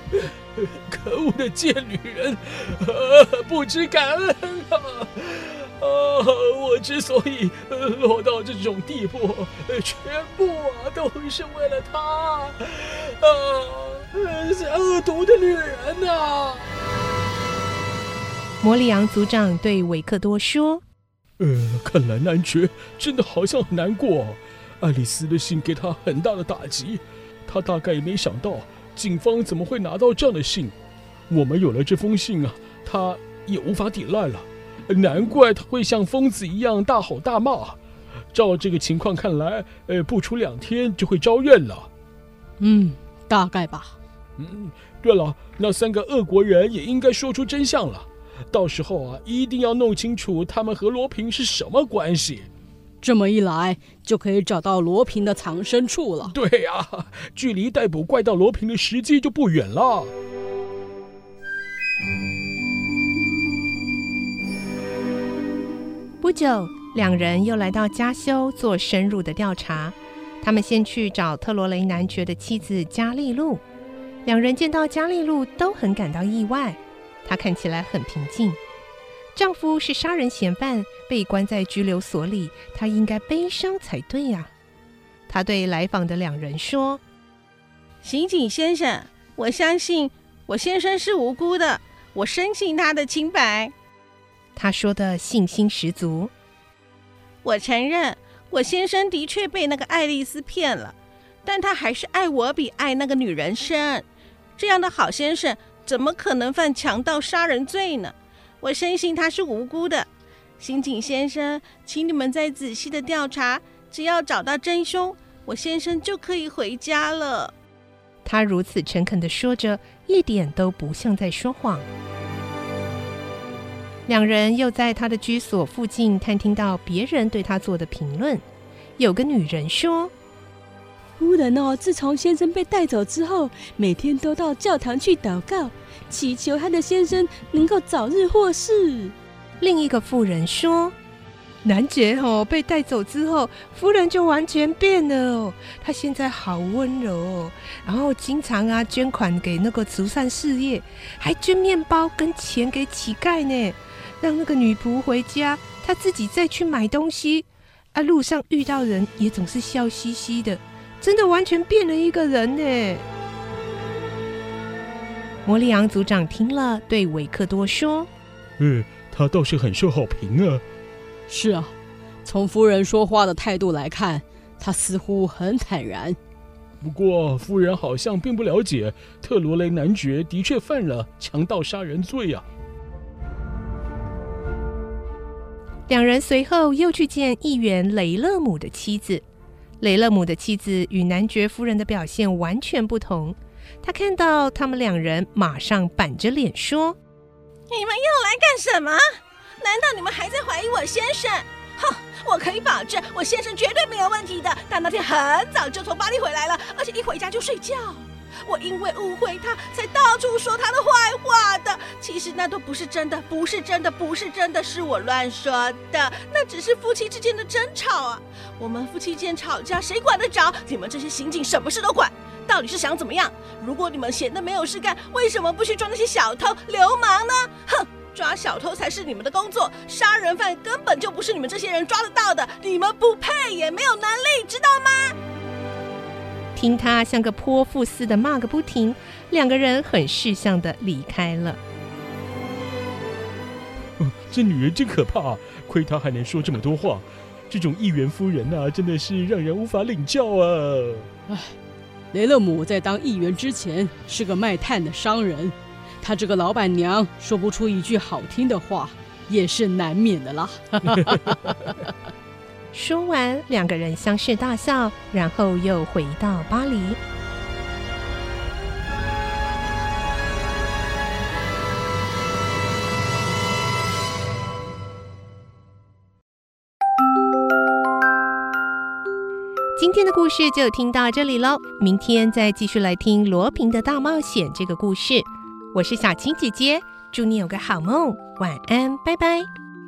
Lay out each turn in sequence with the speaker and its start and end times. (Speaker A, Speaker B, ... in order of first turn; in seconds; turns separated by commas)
Speaker A: 0.1-16.7, Speaker B: 18.6-20.8, Speaker A: 21.4-30.8, Speaker A: 31.3-37.8, Speaker A: 38.3-41.9, Speaker C: 42.6-43.9, Speaker A: 44.4-52.5, Speaker C: 53.0-56.3, Speaker A: 56.2-60.1, Speaker B: 66.2-73.6, Speaker B: 74.2-78.6, Speaker B: 79.4-84.5, Speaker B: 85.3-87.0, Speaker D: 88.0-93.7, Speaker B: 94.6-96.3, Speaker D: 97.4-104.0, Speaker D: 104.6-110.1, Speaker D: 110.6-117.5, Speaker B: 118.2-121.9, Speaker B: 124.1-128.4, Speaker B: 129.0-130.1, Speaker E: 131.2-139.2, Speaker B: 139.6-140.9, Speaker B: 141.6-163.0, Speaker B: 165.4-168.1, Speaker A: 168.6-170.6, Speaker C: 171.3-171.7, Speaker C: 172.2-176.2, Speaker A: 176.8-182.4, Speaker B: 185.9-189.2, Speaker B: 189.8-197.0, Speaker D: 197.7-199.0, Speaker D: 199.6-235.2, Speaker B: 236.6-241.6, Speaker A: 244.0-251.1, Speaker C: 251.3-251.5, Speaker C: 252.1-261.8, Speaker B: 262.7-267.0, Speaker B: 279.8-289.5